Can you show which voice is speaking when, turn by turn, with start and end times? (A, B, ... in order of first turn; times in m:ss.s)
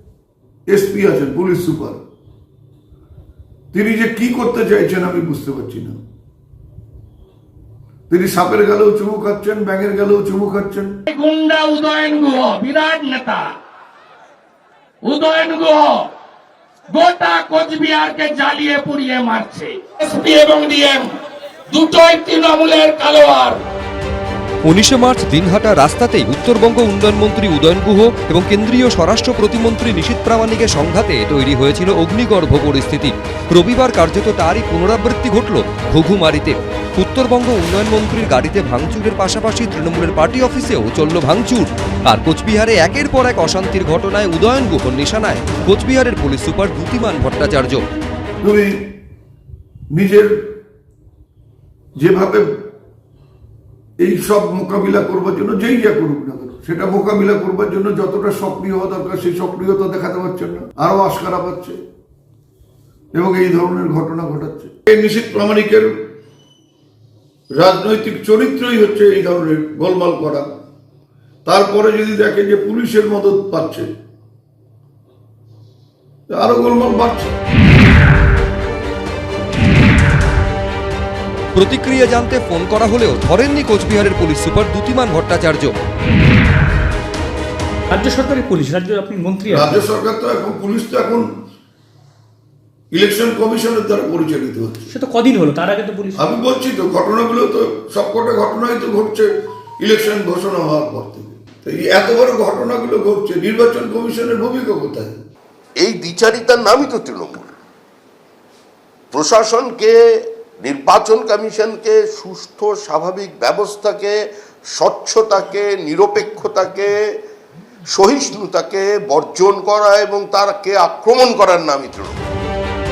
0:00.7-0:02.0 A
0:03.7-0:06.0 A
0:08.1-0:11.0 A
0:11.1-0:13.5 B
0:15.0-0:16.0 B
0:16.9-0:21.1 B
0:21.7-0:23.6 B
0:24.7-0:47.8 C
0:48.4-0:48.8 A
0:49.9-0:50.3 A
0:52.0-0:52.5 A
0:54.0-1:01.8 A
1:03.1-1:06.0 A
1:07.6-1:10.5 A
1:11.5-1:13.9 A
1:16.3-1:17.3 A
1:21.6-1:25.7 C
1:27.9-1:29.9 D
1:29.5-1:31.3 A
1:32.9-1:34.9 A
1:34.9-1:36.2 D
1:36.2-1:45.2 A
1:45.8-1:47.5 E
1:49.1-1:50.0 E
1:50.6-1:54.2 E
1:54.7-1:56.9 E
1:57.9-2:02.2 E